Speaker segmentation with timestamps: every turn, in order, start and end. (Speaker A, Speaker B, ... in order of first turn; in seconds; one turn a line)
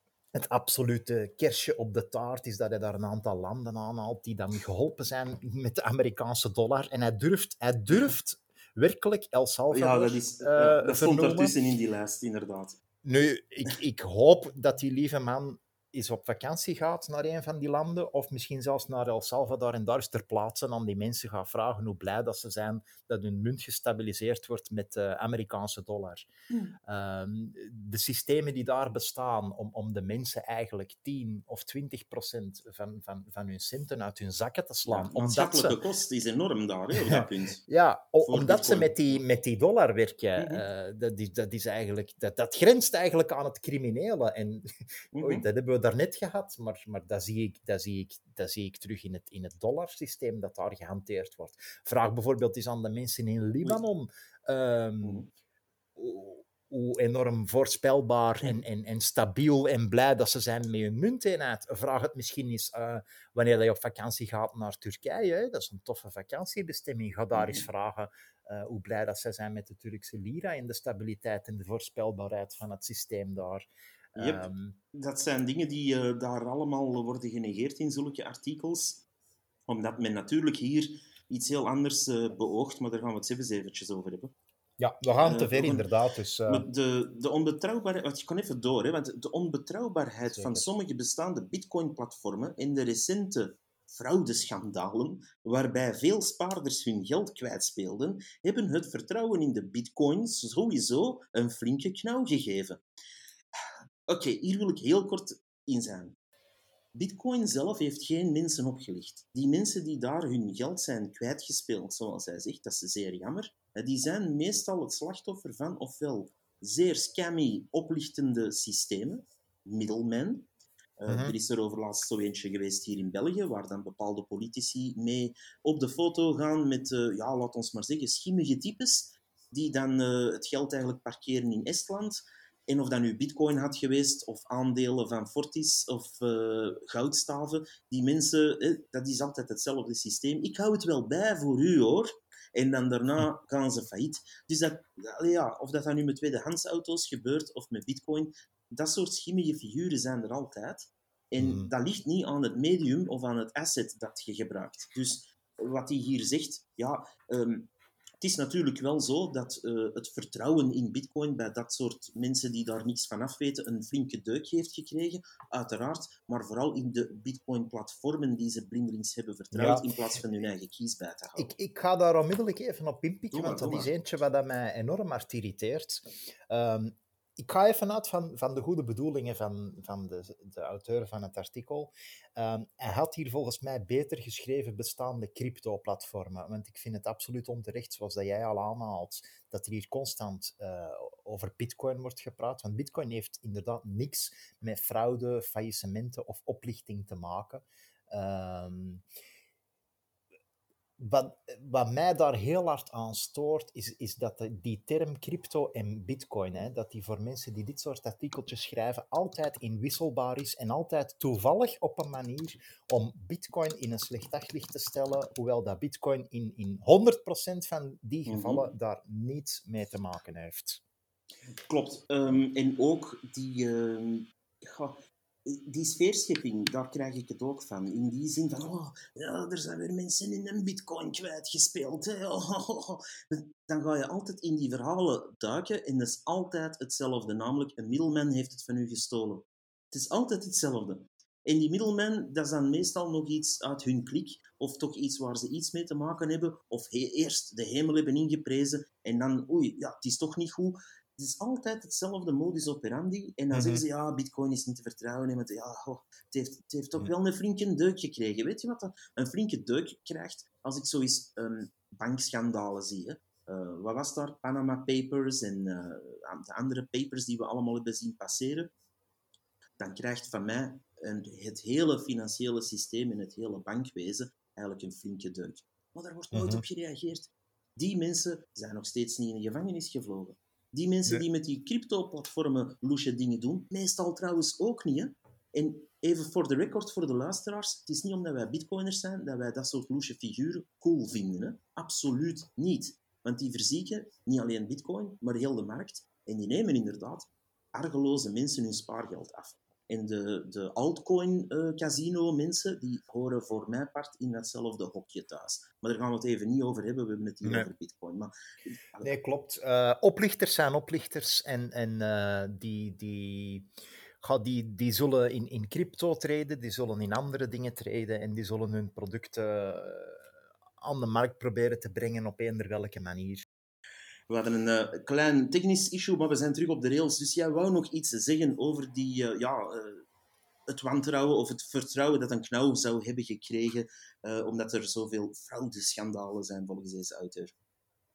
Speaker A: 0.3-11.5
Speaker B: 9.7-12.8
Speaker A: 13.0-26.3
Speaker A: 26.8-35.8
Speaker B: 34.9-37.6
Speaker A: 36.9-55.2
Speaker B: 38.2-39.2
Speaker B: 40.4-40.6
Speaker B: 45.1-45.4
Speaker B: 55.0-55.3
Speaker A: 56.0-74.8
Speaker B: 67.3-67.7
Speaker B: 74.2-79.0
Speaker B: 79.7-84.3
Speaker A: 84.8-86.7
Speaker B: 85.2-85.9
Speaker B: 86.5-102.8
Speaker A: 90.2-90.7
Speaker B: 104.1-106.1
Speaker B: 106.9-120.5
Speaker B: 121.0-157.7
Speaker A: 121.1-121.3
Speaker A: 151.4-151.7
Speaker B: 158.2-171.5
Speaker A: 169.5-169.8
Speaker A: 171.3-199.0
Speaker B: 173.3-173.9
Speaker A: 201.0-220.8
Speaker B: 218.3-218.7
Speaker B: 221.7-268.7
Speaker A: 253.5-253.8
Speaker B: 269.8-309.1
Speaker A: 276.3-276.6
Speaker A: 307.4-307.7
Speaker A: 309.0-313.7
Speaker A: 314.2-320.3
Speaker A: 320.8-323.4
Speaker B: 324.3-330.0
Speaker B: 330.7-337.5